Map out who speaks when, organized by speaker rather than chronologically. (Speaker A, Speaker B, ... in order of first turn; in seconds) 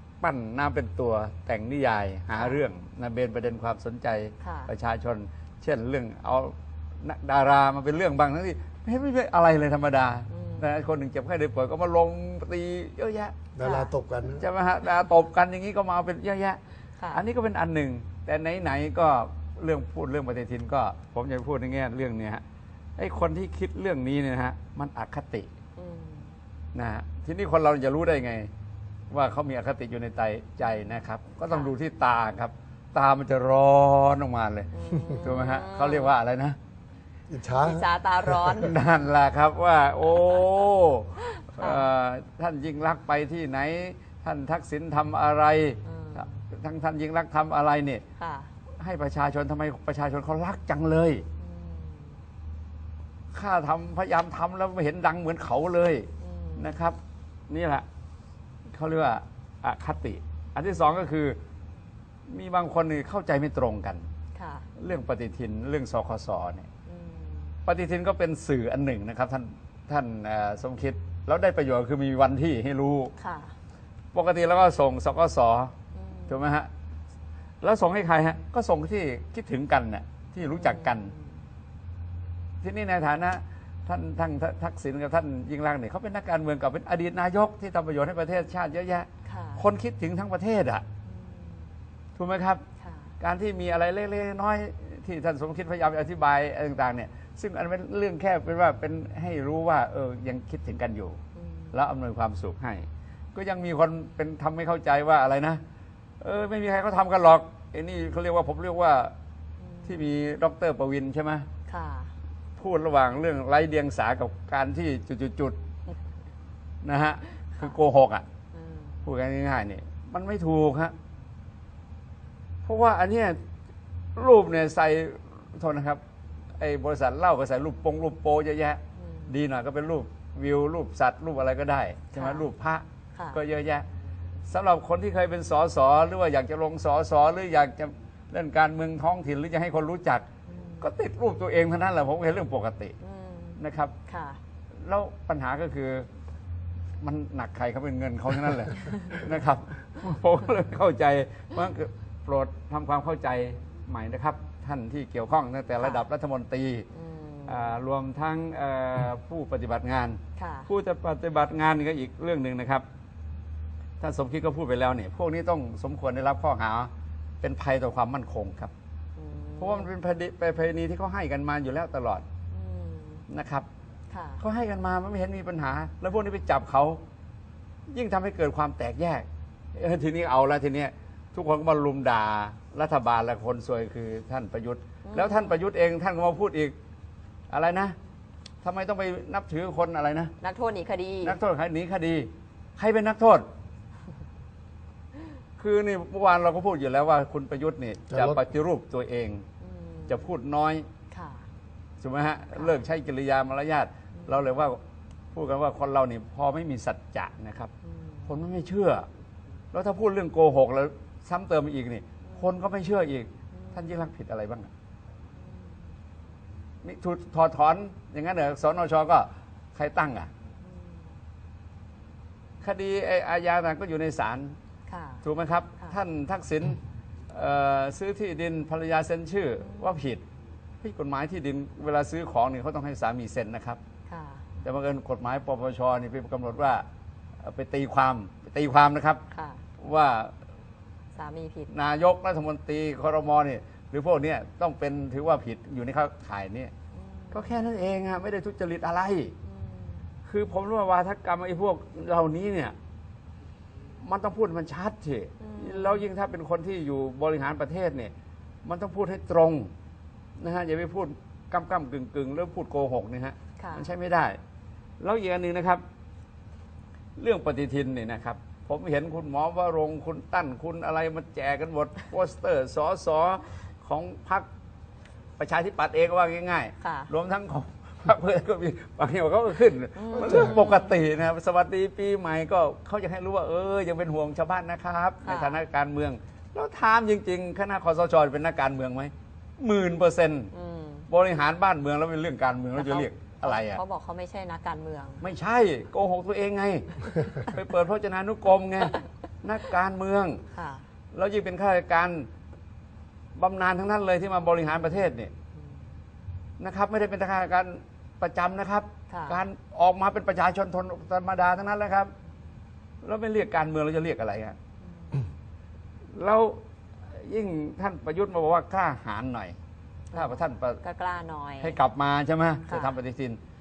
Speaker A: 0.2-13.3, 14.4-16.6, 17.1-22.4, 23.0-25.5, 26.7-28.5, 29.1-36.6, 38.5-48.0, 48.8-51.2, 53.3-57.0, 57.5-57.9, 58.7-61.4, 62.3-64.1, 64.8-66.7, 67.7-73.1, 74.1-75.7, 76.3-76.7, 77.6-81.1, 82.6-90.8, 92.2-92.6, 93.2-101.2, 101.7-105.6, 106.2-109.1, 109.8-111.5, 112.6-115.6, 116.8-118.2, 119.0-120.9, 122.6-123.4, 124.2-126.0, 126.6-133.8, 134.5-140.2, 140.8-143.0, 143.6-143.9, 144.8-146.1, 147.0-156.9, 157.4-162.8, 164.0-168.7, 169.6-172.2, 173.3-173.7, 174.4-177.0, 177.9-186.8, 187.5-187.9, 188.6-190.3, 191.2-193.5, 195.6-199.4, 200.1-200.8, 202.0-204.8, 205.3-207.7, 208.2-209.1, 209.7-214.7, 216.8-220.3, 222.6-224.6, 225.2-230.2, 230.8-233.8, 234.6-236.8, 237.4-239.2, 239.8-240.3, 241.7-246.7, 247.3-249.3, 250.2-252.7, 254.0-258.1, 258.6-259.7, 260.4-264.4, 265.0-265.8, 267.2-274.5, 275.4-290.5, 291.1-293.8, 295.2-300.4, 301.1-302.3, 303.3-305.3, 306.6-312.1, 313.0-314.6, 316.1-319.6, 320.1-320.8, 321.6-323.4
Speaker B: 2.3-2.6, 4.4-4.7, 10.3-10.7, 13.6-13.9, 17.0-17.2, 25.8-26.3, 30.6-31.7, 34.7-36.1, 37.6-38.7, 41.2-41.9, 45.8-46.4, 48.2-48.5, 51.4-52.1, 56.2-56.8, 64.3-64.7, 66.8-67.5, 73.2-73.5, 75.9-76.4, 80.5-81.3, 89.2-89.6, 91.0-91.7, 92.8-93.1, 101.3-101.8, 109.6-110.0, 111.7-112.1, 118.5-119.0, 129.0-129.3, 132.1-132.4, 133.1-133.4, 140.5-140.9, 143.0-144.4, 148.8-149.2, 155.8-156.0, 156.9-157.8, 160.3-160.7, 169.2-169.9, 172.5-173.2, 174.1-174.4, 185.0-185.6, 190.4-191.4, 199.6-200.2, 201.1-201.4, 202.5-202.8, 204.2-204.4, 207.8-208.3, 213.5-213.9, 215.4-215.8, 220.6-221.0, 224.9-225.2, 229.6-230.0, 234.1-234.4, 239.3-239.6, 241.1-241.7, 246.9-247.6, 249.4-250.1, 255.4-256.1, 263.6-263.9, 276.8-277.1, 279.9-280.9, 285.2-285.6, 290.5-291.1, 292.7-295.2, 300.5-300.8, 309.1-309.4, 314.9-315.2, 320.1-321.8, 322.6-323.0
Speaker C: 13.6-14.4, 37.3-38.7, 198.1-198.4, 280.2-280.5